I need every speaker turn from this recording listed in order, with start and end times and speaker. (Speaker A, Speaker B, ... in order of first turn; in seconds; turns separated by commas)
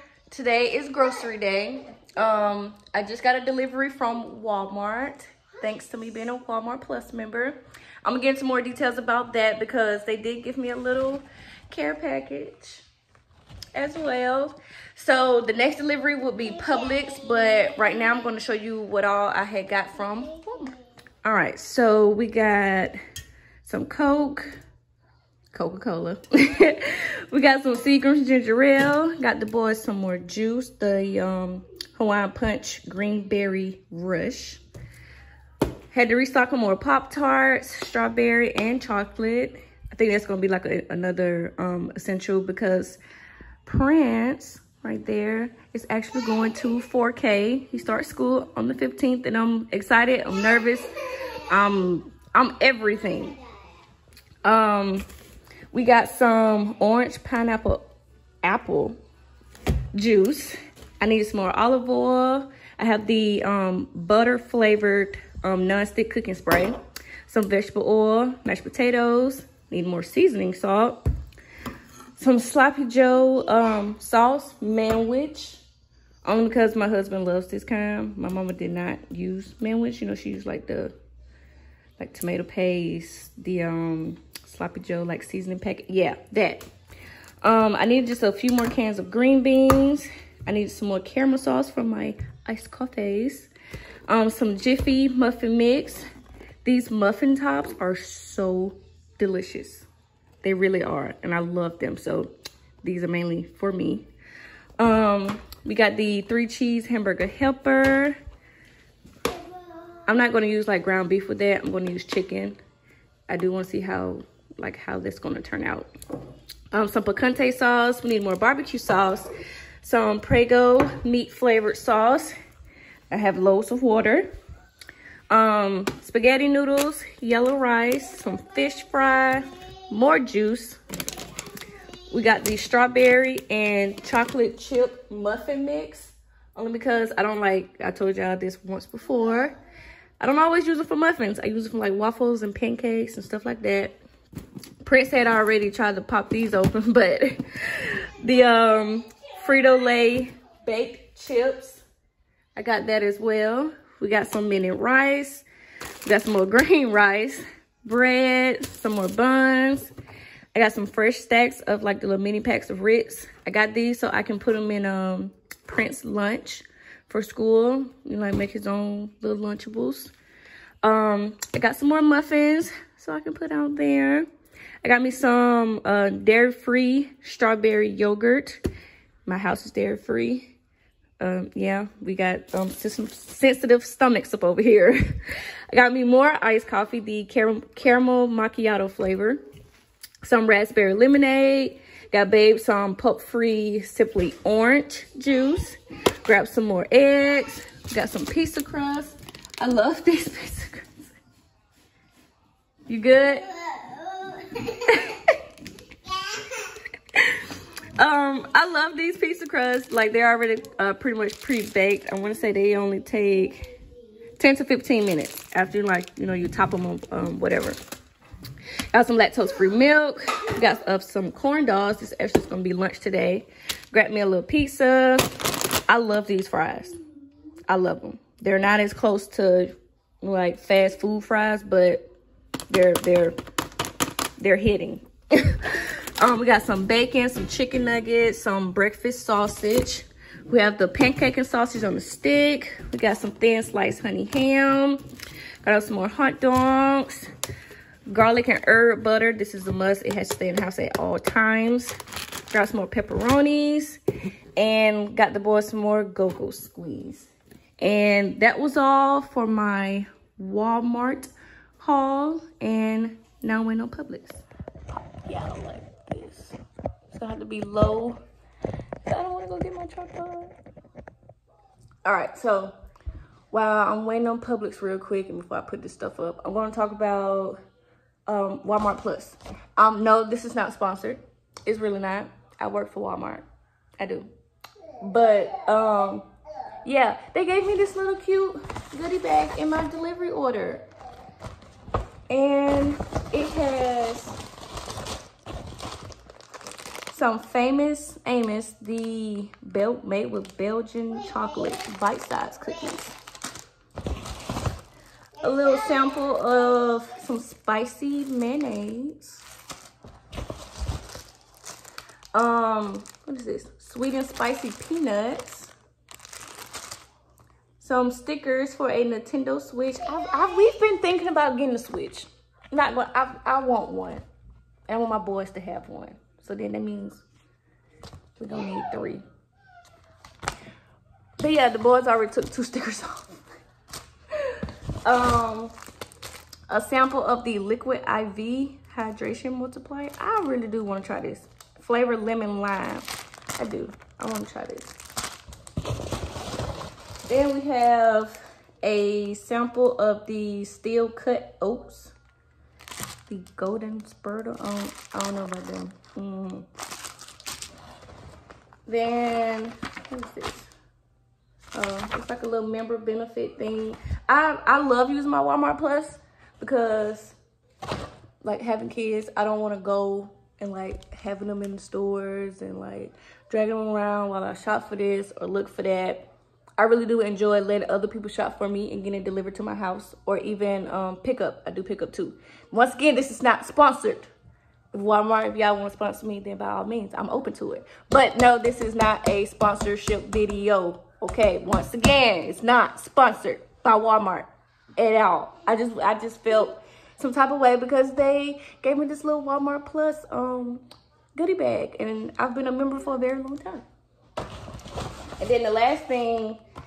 Speaker A: 0.3-12.8, Speaker A: 13.7-20.7, Speaker A: 21.2-22.9, Speaker A: 23.6-24.6, Speaker A: 25.5-34.6, Speaker A: 35.9-43.0, Speaker A: 43.6-53.4, Speaker A: 54.4-55.0, Speaker A: 55.7-57.9, Speaker A: 58.4-59.0, Speaker A: 59.9-71.0, Speaker A: 72.2-75.6, Speaker A: 76.2-80.9, Speaker A: 82.0-86.6, Speaker A: 87.4-93.5, Speaker A: 94.1-96.0, Speaker A: 96.6-99.8, Speaker A: 100.4-104.0, Speaker A: 104.8-108.2, Speaker A: 110.0-112.6, Speaker A: 113.3-115.9, Speaker A: 116.7-119.3, Speaker A: 119.8-122.3, Speaker A: 123.1-124.3, Speaker A: 125.3-130.8, Speaker A: 132.1-139.6, Speaker A: 140.2-143.9, Speaker A: 144.8-151.8, Speaker A: 152.6-155.4, Speaker A: 156.0-159.9, Speaker A: 160.5-170.1, Speaker A: 170.8-174.3, Speaker A: 174.8-178.6, Speaker A: 179.2-180.5, Speaker A: 181.2-185.1, Speaker A: 185.7-189.4, Speaker A: 190.2-201.1, Speaker A: 202.9-203.5, Speaker A: 204.5-205.4, Speaker A: 207.1-213.6, Speaker A: 214.4-217.8, Speaker A: 218.9-225.2, Speaker A: 225.9-226.9, Speaker A: 227.7-232.0, Speaker A: 232.7-233.3, Speaker A: 234.4-245.0, Speaker A: 245.6-247.3, Speaker A: 248.1-251.9, Speaker A: 252.5-254.0, Speaker A: 254.6-266.5, Speaker A: 267.1-268.2, Speaker A: 269.0-270.5, Speaker A: 272.0-272.7, Speaker A: 273.5-277.6, Speaker A: 278.2-283.4, Speaker A: 284.0-284.3, Speaker A: 285.0-286.3, Speaker A: 286.8-290.9, Speaker A: 292.3-294.4, Speaker A: 297.1-303.2, Speaker A: 305.4-309.4, Speaker A: 312.3-315.7, Speaker A: 317.8-324.2, Speaker A: 324.9-327.2, Speaker A: 328.4-329.2, Speaker A: 331.4-333.5, Speaker A: 334.3-335.7, Speaker A: 336.7-344.9, Speaker A: 347.3-352.1, Speaker A: 353.3-356.6, Speaker A: 358.9-360.7, Speaker A: 361.7-367.4, Speaker A: 368.4-384.3, Speaker A: 384.9-400.8, Speaker A: 401.3-403.8, Speaker A: 405.4-406.6